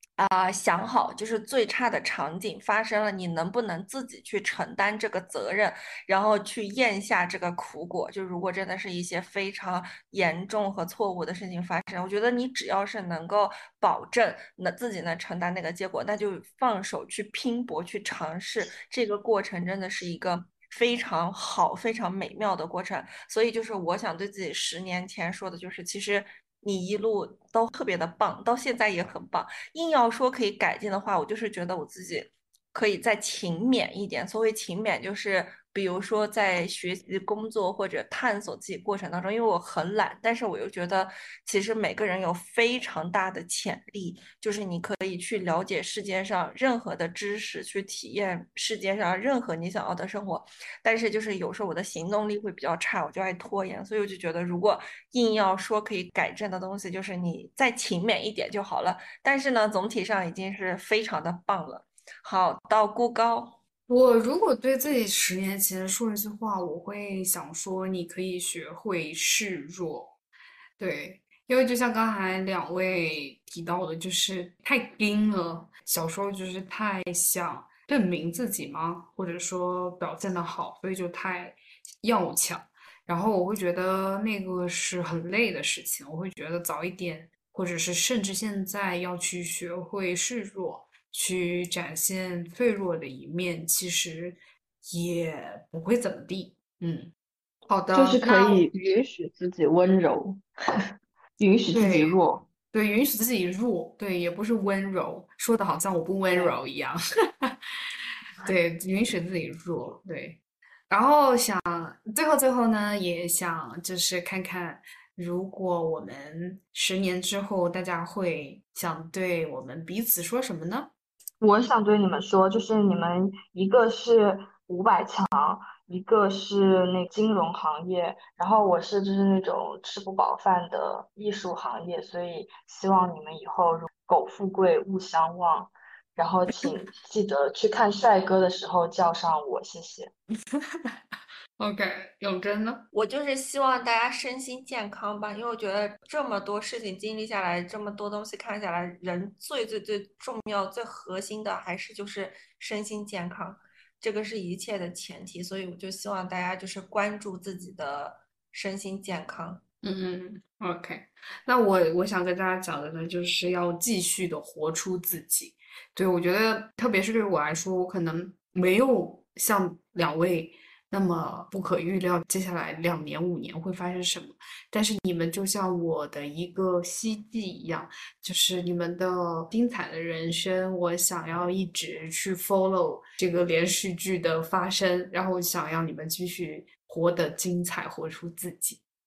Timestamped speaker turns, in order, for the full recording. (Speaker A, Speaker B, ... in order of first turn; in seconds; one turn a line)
Speaker A: 0.2-63.6
Speaker B: 63.9-70.1
Speaker B: 70.8-97.1
Speaker B: 97.7-98.7
Speaker C: 97.9-100.4
Speaker C: 101.4-102.5
Speaker B: 101.7-102.2
Speaker B: 102.7-107.6
Speaker B: 108.4-120.9
Speaker C: 121.4-140.1
Speaker B: 141.6-142.8
Speaker A: 142.9-159.6
Speaker B: 159.8-188.8